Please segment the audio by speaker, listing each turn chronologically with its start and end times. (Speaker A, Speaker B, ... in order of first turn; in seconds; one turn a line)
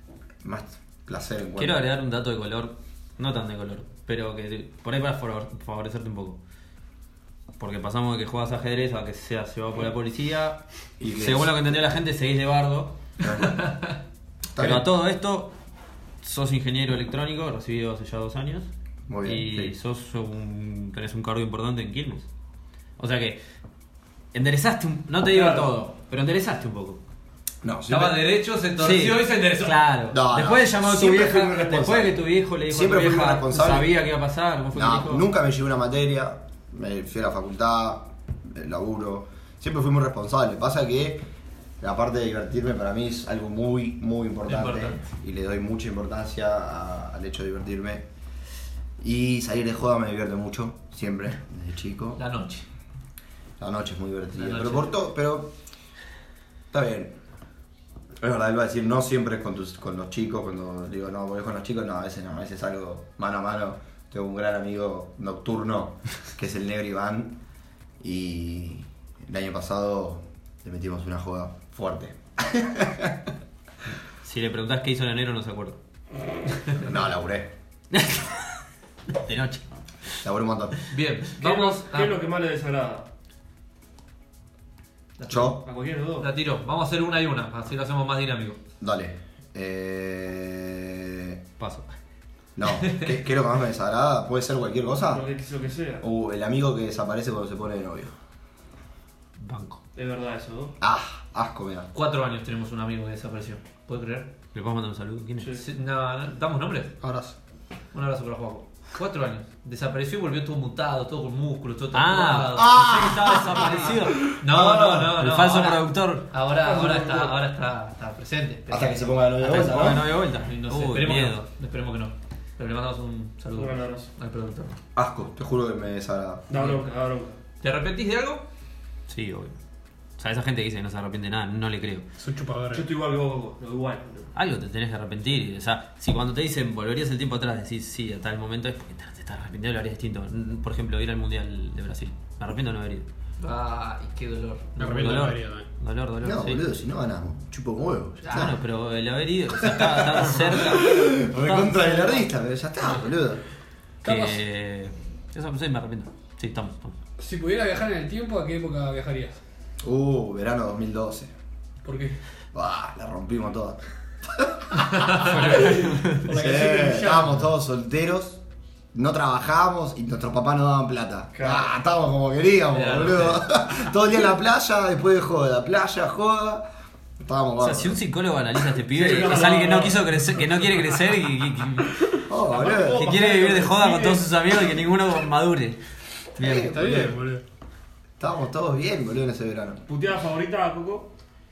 Speaker A: 0.4-1.9
Speaker B: 1.6-6.4
Speaker B: 7.6-13.0
Speaker A: 11.0-11.8
Speaker A: 13.2-13.6
Speaker A: 14.5-14.9
Speaker B: 14.6-15.5
Speaker B: 16.2-18.7
Speaker A: 19.1-19.8
Speaker B: 19.2-22.3
Speaker B: 23.0-23.4
Speaker B: 24.3-27.0
Speaker C: 25.3-25.7
Speaker A: 27.6-28.3
Speaker D: 27.9-29.8
Speaker B: 28.8-35.3
Speaker A: 30.1-33.9
Speaker A: 34.7-41.2
Speaker A: 41.8-48.1
Speaker D: 44.5-45.0
Speaker A: 49.0-52.2
Speaker D: 52.2-52.7
Speaker A: 53.6-55.5
Speaker D: 54.4-55.0
Speaker A: 56.7-57.2
Speaker A: 58.2-67.4
Speaker A: 68.0-73.3
Speaker B: 74.2-75.8
Speaker A: 76.8-77.5
Speaker B: 77.9-78.6
Speaker B: 79.1-79.9
Speaker A: 80.2-80.8
Speaker D: 80.9-82.2
Speaker C: 81.4-83.1
Speaker D: 85.2-88.6
Speaker A: 85.3-85.6
Speaker C: 85.7-86.3
Speaker A: 88.8-91.4
Speaker B: 91.6-91.9
Speaker A: 92.6-95.3
Speaker C: 95.1-96.0
Speaker A: 96.0-98.1
Speaker B: 99.4-99.8
Speaker C: 100.0-100.8
Speaker A: 100.8-101.9
Speaker D: 101.9-104.3
Speaker B: 104.5-105.5
Speaker D: 105.5-107.0
Speaker E: 107.0-107.3
Speaker D: 107.9-124.8
Speaker B: 111.9-116.3
Speaker A: 112.5-115.1
Speaker C: 116.5-117.3
Speaker A: 118.7-120.1
Speaker B: 119.4-121.5
Speaker C: 123.5-124.1
Speaker A: 125.0-126.5
Speaker C: 126.5-127.4
Speaker D: 126.5-126.9
Speaker D: 127.6-128.4
Speaker B: 129.1-129.6
Speaker B: 130.2-132.1
Speaker E: 132.2-132.8
Speaker C: 132.7-134.3
Speaker B: 134.3-143.1
Speaker D: 143.4-145.3
Speaker E: 144.8-145.7
Speaker B: 144.9-146.6
Speaker A: 146.2-148.6
Speaker B: 148.3-152.3
Speaker A: 149.6-153.4
Speaker E: 154.0-154.4
Speaker B: 154.0-157.0
Speaker E: 157.2-159.4
Speaker A: 159.8-161.3
Speaker E: 161.8-162.2
Speaker A: 162.5-168.4
Speaker E: 165.2-167.3
Speaker C: 165.6-165.9
Speaker A: 168.9-176.7
Speaker C: 171.4-171.7
Speaker D: 172.7-173.8
Speaker A: 177.2-178.0
Speaker B: 177.6-182.0
Speaker C: 178.9-180.4
Speaker A: 182.2-183.1
Speaker C: 182.5-184.2
Speaker B: 182.9-185.8
Speaker B: 186.4-187.0
Speaker A: 186.4-187.2
Speaker E: 186.7-187.4
Speaker A: 188.2-189.8
Speaker C: 189.9-191.1